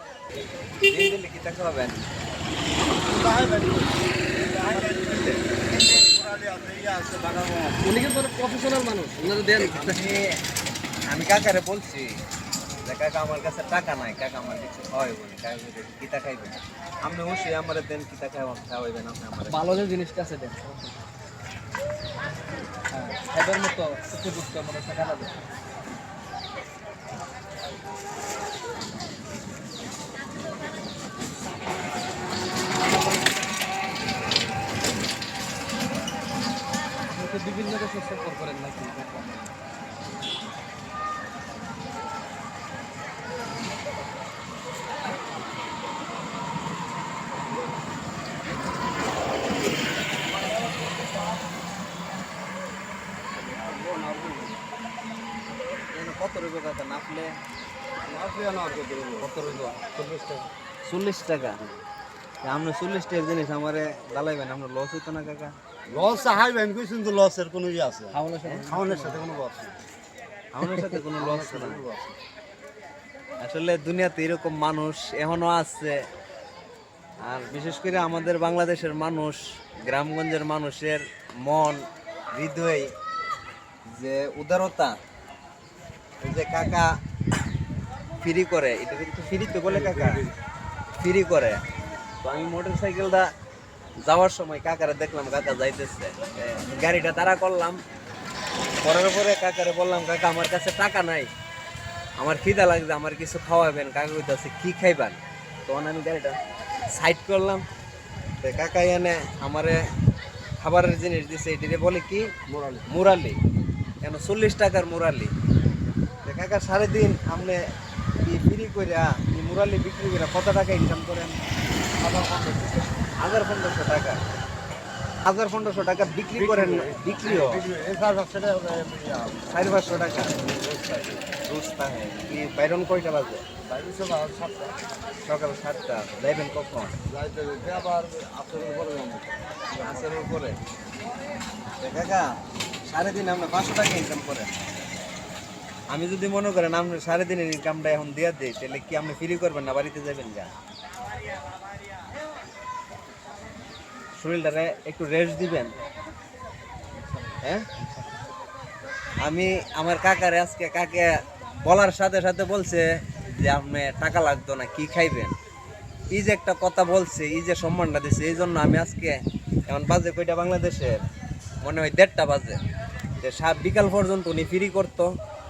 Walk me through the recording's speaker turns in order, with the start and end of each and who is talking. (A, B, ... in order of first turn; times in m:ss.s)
0:00.8-0:02.0 A
0:03.0-0:03.9 B
0:04.4-0:07.8 B
0:04.6-0:05.5 A
0:07.8-0:10.0 C
0:09.6-0:10.4 A
0:11.1-0:12.2 A
0:12.8-0:19.9 A
0:19.5-0:21.0 C
0:22.9-0:25.3 C
0:37.1-0:39.5 C
0:53.4-0:54.6 B
0:55.9-0:57.4 A
0:58.0-1:00.5 B
1:00.8-1:01.6 A
1:02.4-1:05.6 A
1:05.9-1:09.8 B
1:08.1-1:09.3 C
1:10.5-1:11.8 A
1:11.1-1:12.2 B
1:13.4-1:16.0 A
1:17.2-1:22.9 A
1:23.9-1:25.0 A
1:26.2-1:27.0 A
1:28.2-1:30.2 A
1:29.6-1:30.3 B
1:31.0-1:31.6 A
1:32.2-1:33.3 A
1:34.0-1:37.8 A
1:38.8-1:41.3 A
1:42.2-1:46.4 A
1:46.9-1:47.6 A
1:48.4-1:49.9 A
1:50.6-1:52.3 A
1:52.5-1:52.9 B
1:52.9-1:53.4 A
1:54.0-1:55.3 A
1:56.2-1:57.7 A
1:58.2-2:01.4 A
2:02.0-2:02.9 B
2:03.2-2:04.2 A
2:05.2-2:07.6 A
2:06.3-2:09.4 B
2:09.5-2:10.3 A
2:10.4-2:11.2 B
2:11.4-2:13.4 A
2:13.6-2:14.8 B
2:15.2-2:17.0 A
2:17.1-2:20.3 B
2:19.8-2:20.6 A
2:21.8-2:22.3 A
2:22.9-2:24.5 A
2:25.9-2:30.5 A
2:34.2-2:35.7 A
2:37.0-2:38.1 C
2:37.4-2:37.7 A
2:39.2-2:45.4 A
2:46.1-2:51.0 A
2:51.6-2:52.6 A
2:53.2-2:55.1 A